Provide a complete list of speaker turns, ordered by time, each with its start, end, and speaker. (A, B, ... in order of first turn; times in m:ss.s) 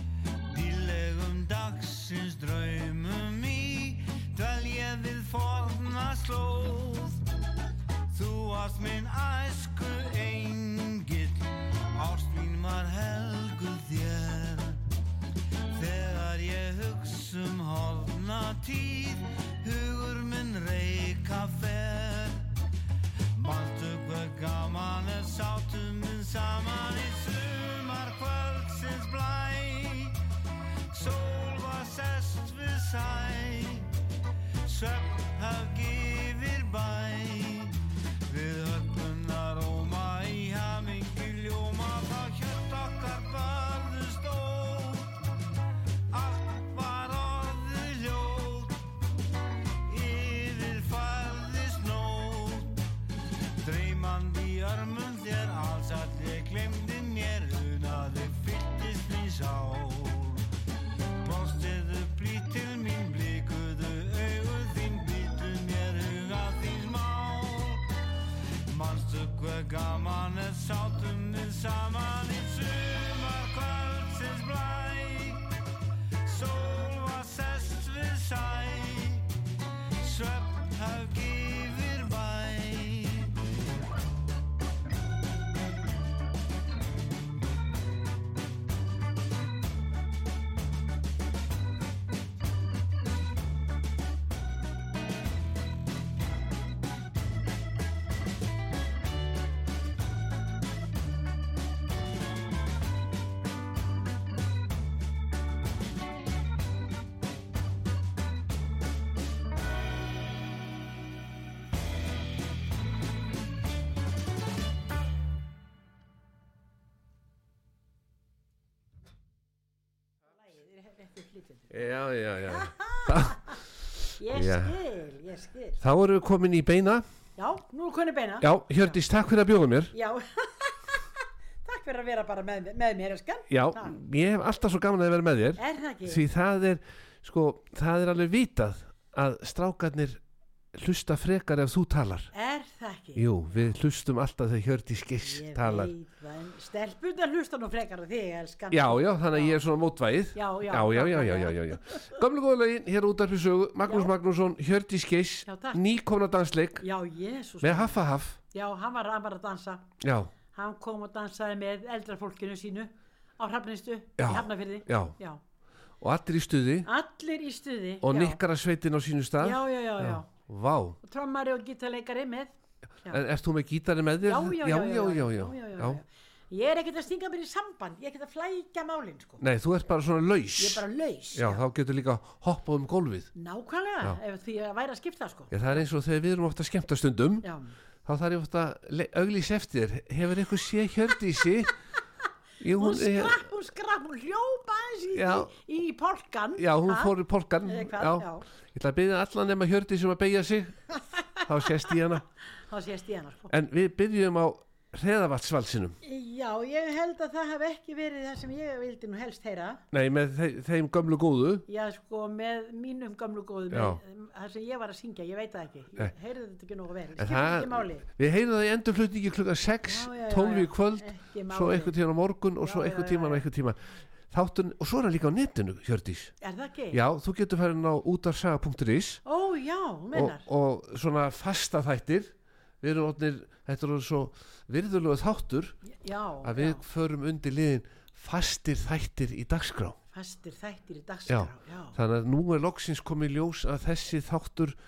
0:00.5-0:07.2 A
0:08.1-0:14.8 A
0:15.7-0:22.5 A
0:23.3-0:30.2 A
0:30.9-0:33.9 A
0:34.6-0:45.2 A
0:46.1-0:48.8 A
0:49.8-0:52.8 A
0:53.6-1:00.5 A
1:01.2-1:08.0 A
1:08.6-1:15.5 A
1:16.2-1:19.3 A
1:20.0-1:23.4 A
2:00.4-2:01.7 B
2:01.7-2:03.4 C
2:02.5-2:03.6 B
2:04.2-2:05.8 B
2:04.3-2:04.8 C
2:05.8-2:07.0 C
2:07.4-2:09.0 B
2:08.4-2:09.9 C
2:09.9-2:11.0 B
2:11.6-2:14.0 B
2:13.5-2:20.2 C
2:15.6-2:16.2 B
2:20.7-2:22.3 C
2:22.3-2:23.7 B
2:23.2-2:25.9 C
2:25.2-2:29.6 B
2:28.7-2:36.8 C
2:30.3-2:32.2 B
2:33.8-2:34.1 B
2:35.4-2:35.8 B
2:36.8-2:39.9 B
2:37.6-2:38.4 C
2:40.0-2:40.3 C
2:40.5-2:45.4 B
2:44.2-2:45.1 C
2:46.0-2:46.9 C
2:46.8-2:48.4 B
2:48.0-2:51.0 C
2:49.4-2:50.3 B
2:51.0-2:53.2 B
2:53.1-2:56.0 C
2:54.2-2:59.4 B
2:59.4-3:00.8 C
3:00.6-3:01.6 B
3:01.3-3:03.3 C
3:03.3-3:05.8 B
3:05.5-3:07.5 C
3:07.4-3:07.7 B
3:08.0-3:11.7 C
3:12.6-3:13.4 C
3:12.8-3:18.4 B
3:15.1-3:15.5 C
3:16.6-3:20.8 C
3:21.1-3:21.9 B
3:21.4-3:22.2 C
3:22.7-3:23.5 B
3:23.5-3:26.0 C
3:26.0-3:29.8 B
3:29.9-3:31.6 C
3:31.7-3:38.0 B
3:33.7-3:34.0 C
3:37.2-3:43.8 C
3:39.8-3:41.9 B
3:42.6-3:43.4 B
3:44.3-3:46.3 C
3:46.4-3:47.0 B
3:46.9-3:49.2 C
3:49.2-3:50.4 B
3:50.1-3:55.8 C
3:55.8-3:56.8 B
3:56.4-4:00.0 C
4:00.1-4:02.0 B
4:01.3-4:04.8 C